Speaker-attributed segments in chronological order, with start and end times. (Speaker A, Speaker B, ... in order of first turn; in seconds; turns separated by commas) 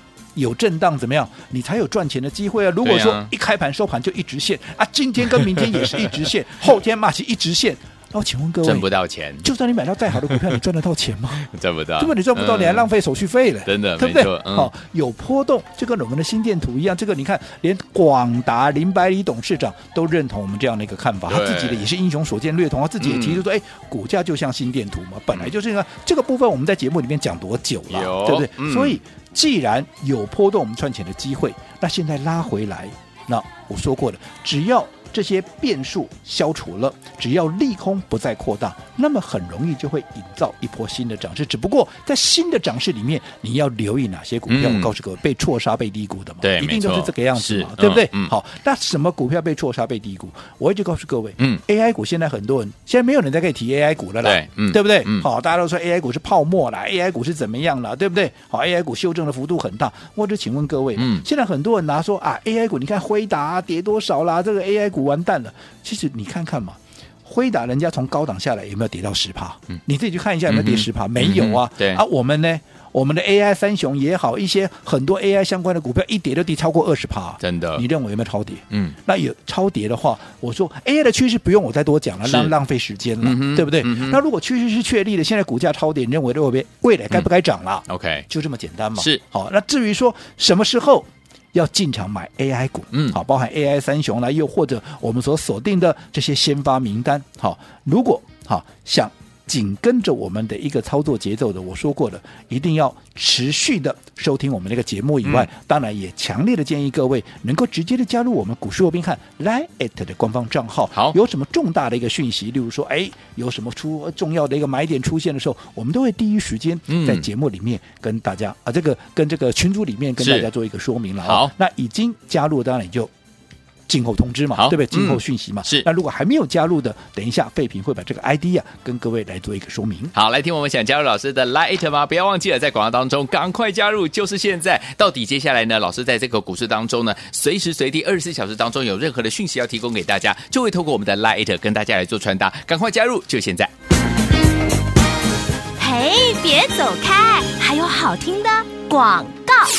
Speaker A: 0.3-8.9, Speaker B: 2.8-3.3, Speaker B: 8.6-9.5, Speaker A: 9.4-123.1, Speaker B: 11.4-12.9, Speaker B: 13.7-14.7, Speaker B: 21.3-21.8, Speaker B: 23.0-23.4, Speaker B: 27.9-29.0, Speaker B: 44.5-44.9, Speaker B: 46.4-48.3, Speaker B: 54.2-55.3, Speaker B: 61.0-61.2, Speaker B: 70.5-72.0, Speaker B: 77.4-77.8, Speaker B: 78.7-79.0, Speaker B: 82.2-82.5, Speaker B: 83.2-84.2, Speaker B: 87.9-88.2, Speaker B: 92.9-93.2, Speaker B: 105.2-105.5, Speaker B: 116.9-117.2, Speaker B: 120.2-120.5, Speaker B: 121.2-121.5, Speaker A: 123.9-130.1, Speaker B: 124.5-125.9, Speaker B: 130.1-143.7, Speaker C: 145.8-149.7